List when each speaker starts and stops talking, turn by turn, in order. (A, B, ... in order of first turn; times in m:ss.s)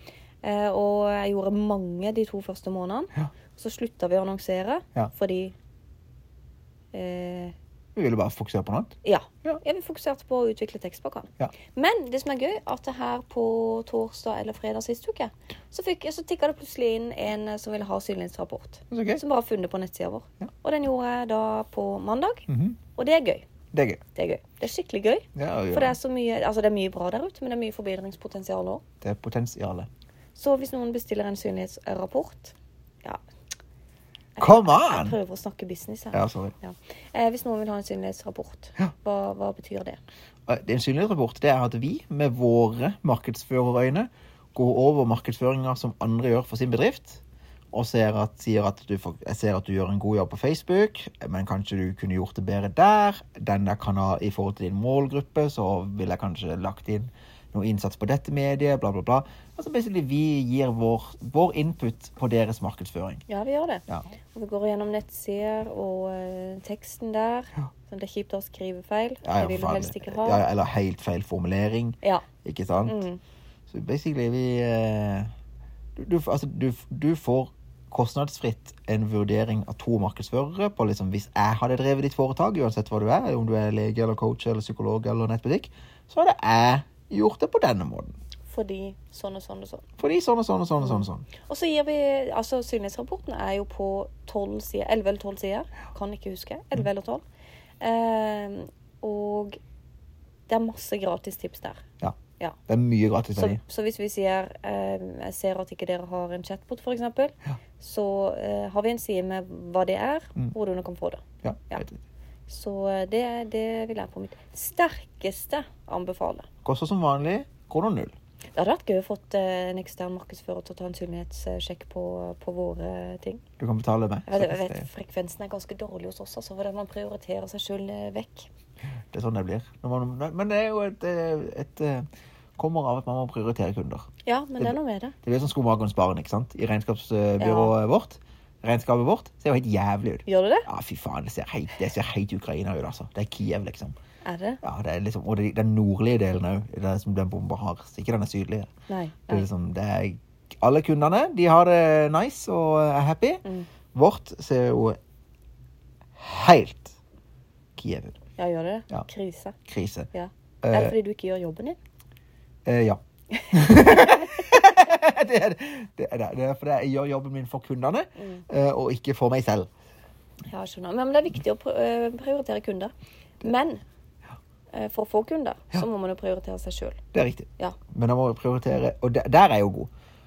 0:00.4-0:05.5 A
0:06.9-0:07.5 A
0:08.0-0:09.6 B
0:09.0-0:23.5 A
0:18.9-0:19.2 B
0:22.5-0:22.8 B
0:23.7-0:24.0 B
0:24.2-0:28.8 A
0:25.4-0:26.0 B
0:29.0-0:29.9 B
0:30.4-0:33.2 A
0:34.4-0:40.0 A
0:34.4-0:35.2 B
0:36.1-0:36.5 B
0:40.5-1:03.2 B
1:03.3-1:03.8 A
1:04.3-1:10.4 A
1:09.2-1:13.0 B
1:12.9-1:13.2 A
1:13.7-1:15.3 B
1:16.0-1:28.2 B
1:28.5-1:29.8 A
1:30.0-1:31.3 B
1:30.8-1:37.2 A
1:37.8-1:39.6 A
1:40.5-1:41.8 A
1:42.7-1:43.6 B
1:43.4-1:51.9 A
1:51.4-1:52.0 B
1:52.5-1:56.5 A
1:56.6-1:58.1 B
1:58.6-2:03.4 A
2:03.6-2:04.8 B
2:04.3-2:08.5 A
2:09.1-2:12.1 B
2:12.6-2:24.0 B
2:14.3-2:15.2 A
2:17.4-2:17.7 A
2:20.3-2:20.7 A
2:24.2-2:24.6 A
2:24.6-2:28.7 B
2:28.9-2:29.4 A
2:29.3-2:35.0 B
2:36.2-2:37.0 B
2:37.8-2:38.2 B
2:38.4-2:39.6 A
2:39.7-2:40.1 B
2:40.1-2:41.8 A
2:40.6-2:41.0 B
2:42.7-2:49.7 B
2:48.2-2:48.4 A
2:50.5-2:53.8 A
2:54.7-2:57.0 A
2:57.1-2:59.9 B